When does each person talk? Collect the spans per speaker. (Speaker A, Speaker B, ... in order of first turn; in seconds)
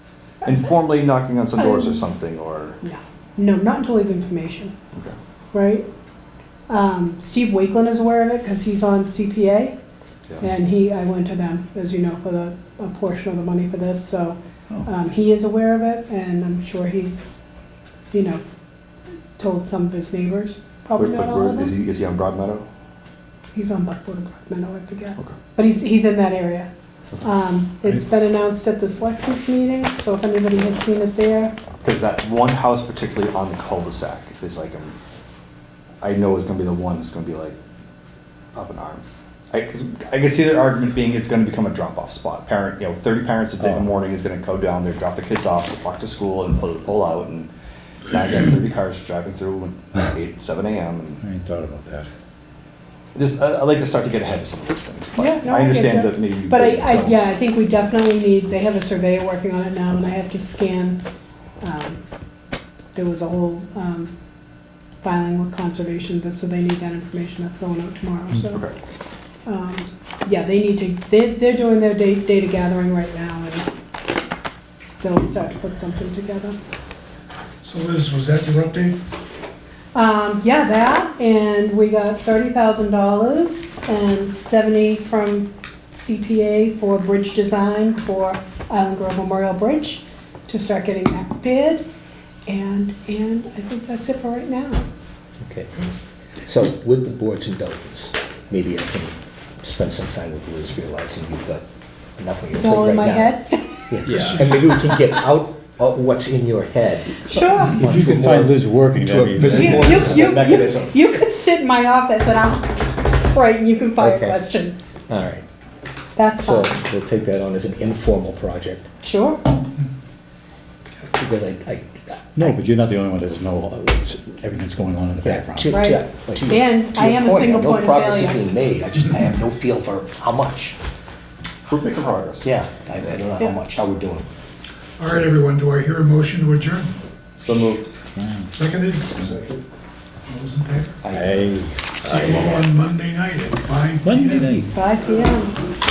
Speaker A: 0.5-2.8, 21.0-22.6, 31.8-35.0, 36.0-37.6, 38.5-47.5, 48.1-51.2, 53.1-57.2, 131.7-132.5, 137.4-137.9
Speaker B: 1.6-2.1, 2.8-4.7, 5.5-5.9, 6.7-9.8, 10.4-17.2, 18.1-18.4, 19.4-21.8, 23.5-26.7, 27.2-31.6, 55.2-61.0, 61.6-62.0, 63.0-64.1, 65.0-68.7, 69.5-73.7, 75.0-76.6, 80.0-91.8, 92.5-94.8, 102.5-104.0, 107.2-107.8, 109.5-115.0, 116.2-116.8, 119.0-119.4, 125.7-128.4, 144.7-145.6
Speaker C: 51.2-52.1, 107.8-110.1, 122.4-125.8, 138.2-138.5, 141.1-142.4, 144.0-144.7
Speaker D: 77.6-79.0, 104.1-104.8, 135.0-136.9, 138.6-139.6, 140.3-141.1, 142.0-144.7
Speaker E: 95.4-95.7, 96.4-101.7, 102.2-111.0, 114.0-114.4, 115.1-115.5, 116.4-118.9, 121.1-122.5, 125.2-130.8, 132.4-134.3